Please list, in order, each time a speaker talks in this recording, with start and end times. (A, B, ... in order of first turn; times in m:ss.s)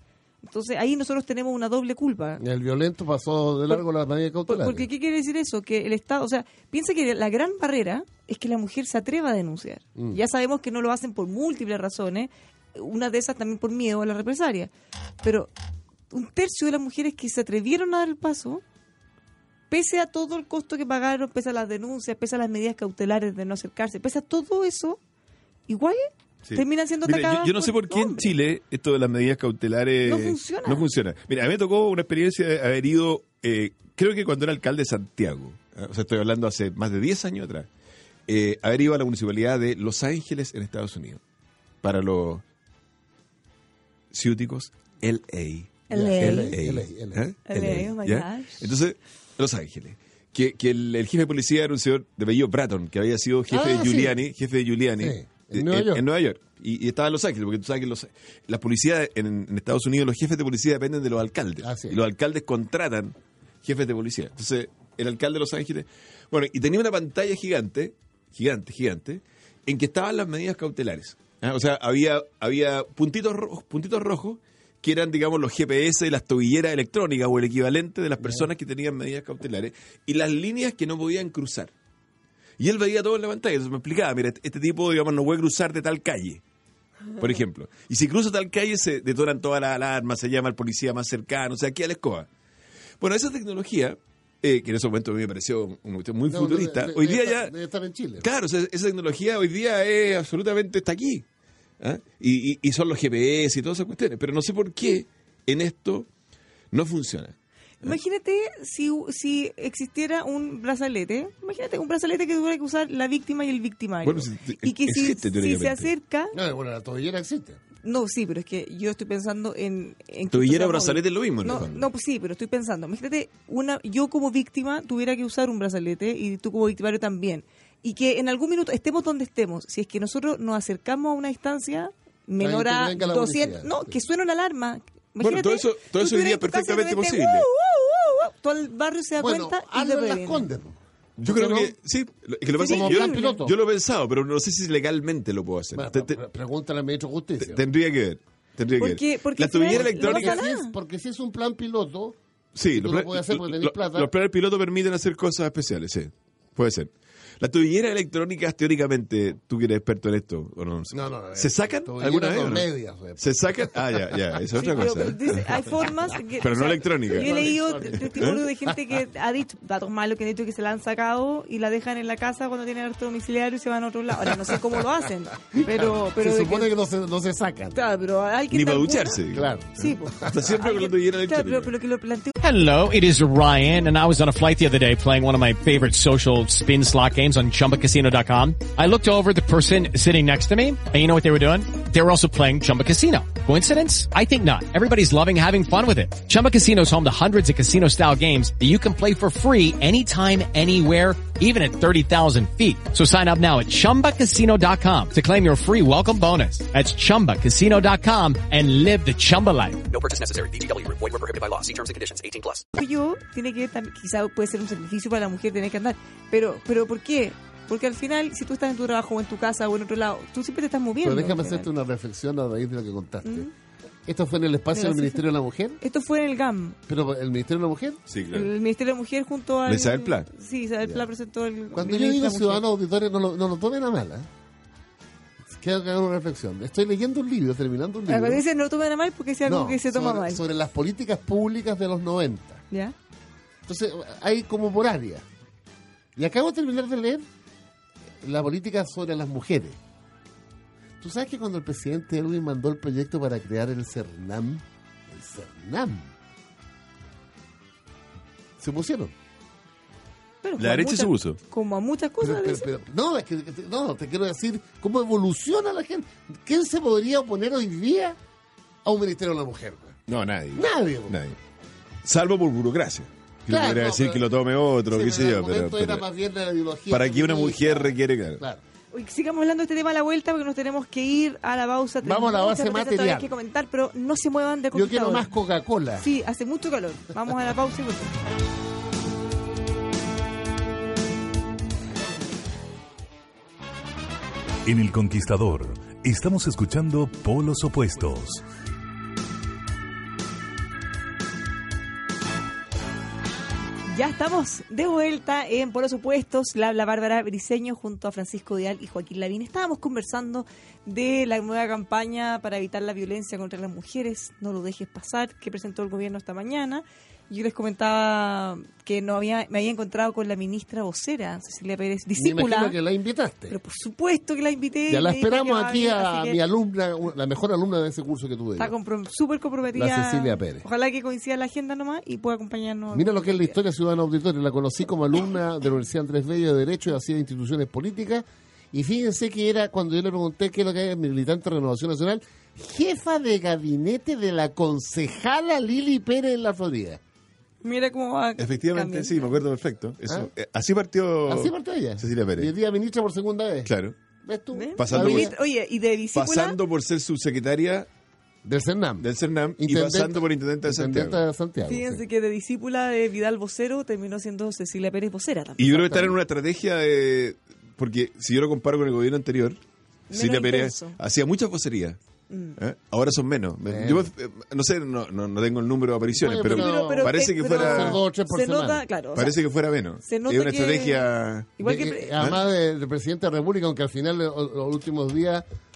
0:00.4-0:02.4 A
0:02.4-0:04.9 B
0:04.5-0:14.7 A
0:15.2-0:15.5 A
0:16.1-0:18.6 A
0:19.7-0:25.0 A
0:25.7-0:28.3 A
0:26.4-0:37.7 C
0:30.0-0:30.9 A
0:38.3-0:41.2 C
0:41.8-0:42.4 C
0:44.1-1:21.7 C
0:45.9-0:46.5 A
0:45.9-0:47.2 B
0:47.5-0:48.7 A
0:53.5-0:54.2 B
0:55.0-0:56.0 B
1:01.6-1:02.0 B
1:18.2-1:18.5 B
1:22.6-1:26.4 C
1:27.2-1:32.3 C
1:33.0-1:37.5 C
1:36.3-1:38.3 B
1:38.2-1:41.2 C
1:41.8-1:46.1 C
1:46.7-1:48.0 C
1:47.8-1:56.4 A
1:54.0-1:55.9 C
1:56.3-1:57.6 B
1:57.8-2:20.5 A
2:00.3-2:01.9 C
2:12.4-2:14.0 B
2:15.2-2:17.5 C
2:19.2-2:21.7 B
2:21.2-2:26.2 C
2:22.6-2:23.4 A
2:22.6-2:23.5 B
2:25.7-2:27.6 B
2:27.4-2:30.4 C
2:28.8-2:30.7 A
2:29.7-2:32.2 B
2:32.5-2:45.5 C
2:32.7-2:34.1 B
2:40.9-2:44.2 B
2:44.6-2:56.7 A
2:46.4-2:48.4 C
2:47.1-2:48.4 B
2:55.5-2:57.8 B
2:57.7-2:59.2 A
2:58.5-2:59.5 C
2:59.3-3:00.3 B
2:59.8-3:02.3 A
3:00.2-3:01.7 C
3:02.4-3:30.2 D
3:30.1-3:32.6 E
3:32.8-3:41.7 A
3:41.0-3:43.5 B
3:43.2-3:43.5 A
3:44.0-3:45.8 B
3:44.7-3:45.2 A
3:45.8-3:46.8 A
3:46.9-3:48.0 B
3:48.1-3:48.5 C
3:48.3-3:52.6 A
3:49.6-3:50.3 C
3:51.7-3:54.3 B
3:55.5-3:58.4 B
3:58.1-4:00.4 A
3:59.4-4:02.6 B
4:03.6-4:05.2 B
4:06.2-4:07.2 B
4:08.2-4:09.8 B
4:11.0-4:16.1 B
4:18.6-4:19.1 B
4:20.4-4:22.7 A
4:20.6-4:21.4 C
4:22.2-4:28.2 B
4:28.8-4:30.0 B
4:30.1-4:31.4 C
4:30.5-4:31.2 B
4:32.0-4:36.0 C
4:33.5-4:34.2 B
4:34.9-4:38.6 B
4:36.9-4:38.4 C
4:38.9-4:45.3 A
4:42.0-4:43.3 B
4:44.7-4:46.1 B
4:46.0-4:48.1 A
4:54.6-4:58.4 F
5:03.9-5:22.8 A
5:22.2-5:23.6 B
5:23.5-5:26.4 A
5:24.9-5:28.7 B
5:28.6-5:33.6 A
5:29.7-5:30.6 B
5:32.9-5:47.0 B
5:47.6-5:49.2 A
5:48.4-5:52.5 C
5:51.2-5:53.7 B
5:53.6-5:53.9 C
5:54.2-5:55.3 B
5:54.5-5:56.6 A
5:54.8-5:55.3 C
5:56.1-5:57.9 C
5:58.4-6:02.0 B
5:59.0-6:01.2 C
6:01.6-6:06.0 A
6:05.6-6:09.6 C
6:05.7-6:06.1 B
6:10.1-6:11.0 A
6:10.1-6:12.0 C
6:12.3-6:12.6 A
6:12.6-6:18.0 C
6:13.6-6:14.1 B
6:16.1-6:18.8 B
6:16.4-6:19.4 A
6:19.1-6:21.5 C
6:20.0-6:21.0 A
6:21.6-6:22.2 A
6:21.6-6:25.4 B